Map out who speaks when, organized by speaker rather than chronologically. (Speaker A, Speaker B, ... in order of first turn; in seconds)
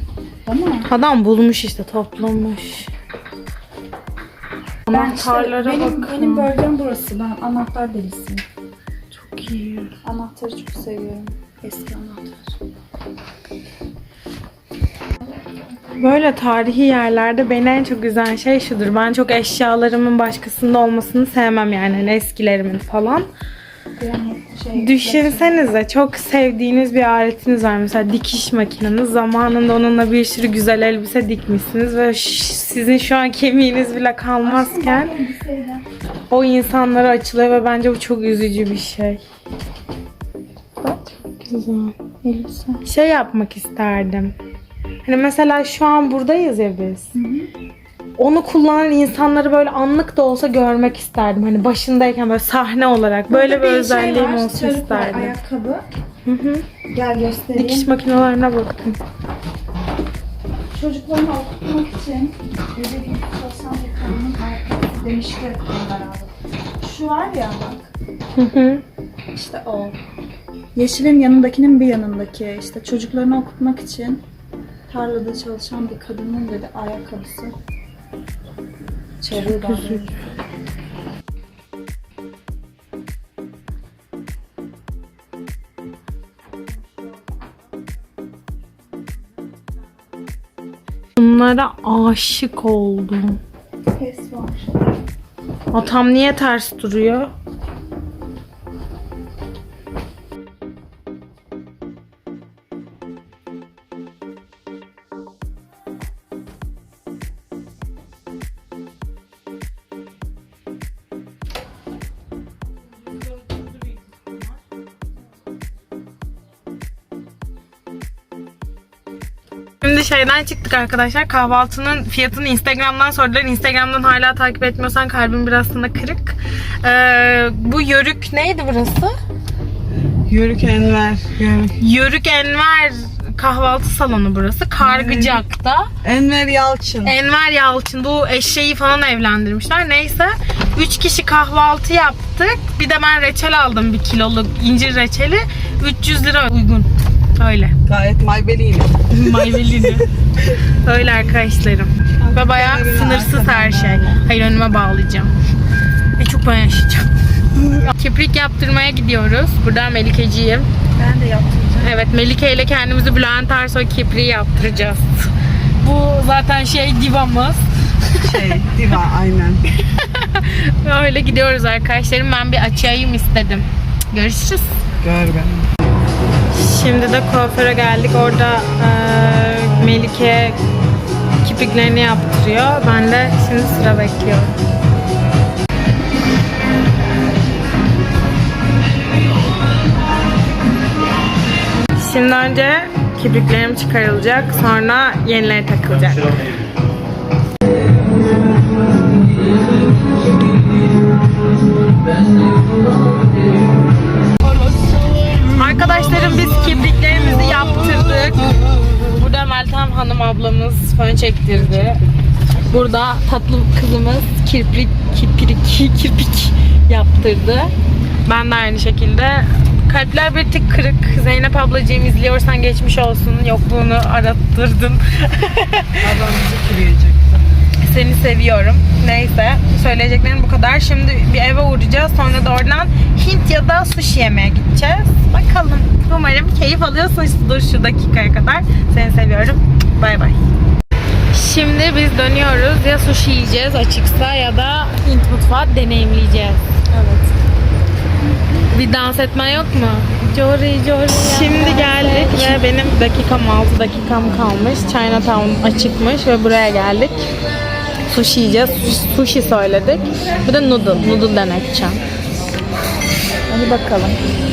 Speaker A: 0.5-0.9, 4.9-8.4, 10.0-12.6, 24.0-25.6, 34.4-35.9, 40.8-42.8, 47.1-47.5, 53.3-55.9, 56.9-57.9, 60.7-67.9, 69.3-70.0, 70.8-74.2, 74.9-77.5, 79.2-80.1, 93.9-94.8, 161.0-162.0, 246.9-247.3, 251.4-252.6, 263.5-264.2
Speaker B: 0.9-2.9, 4.9-6.5, 9.1-9.9, 16.0-23.3, 24.8-35.1, 36.3-39.2, 42.8-44.4, 45.0-47.1, 48.2-55.3, 56.3-56.7, 57.5-59.0, 68.4-68.8, 79.3-80.1, 91.2-93.4, 95.7-97.3, 119.8-129.1, 131.8-135.9, 137.0-147.7, 149.1-150.1, 150.8-155.3, 156.2-157.1, 157.8-160.7, 161.8-165.3, 165.8-168.6, 169.8-174.8, 176.5-180.6, 181.4-184.6, 192.0-196.3, 205.5-212.0, 212.7-217.7, 218.3-226.0, 227.8-240.4, 241.3-246.8, 248.7-257.3, 258.1-262.0
Speaker C: 130.3-131.8, 134.8-135.4, 136.0-137.1, 147.9-149.0, 152.2-154.2, 168.2-169.6, 175.0-175.7, 204.8-206.2, 211.5-212.1, 226.0-227.4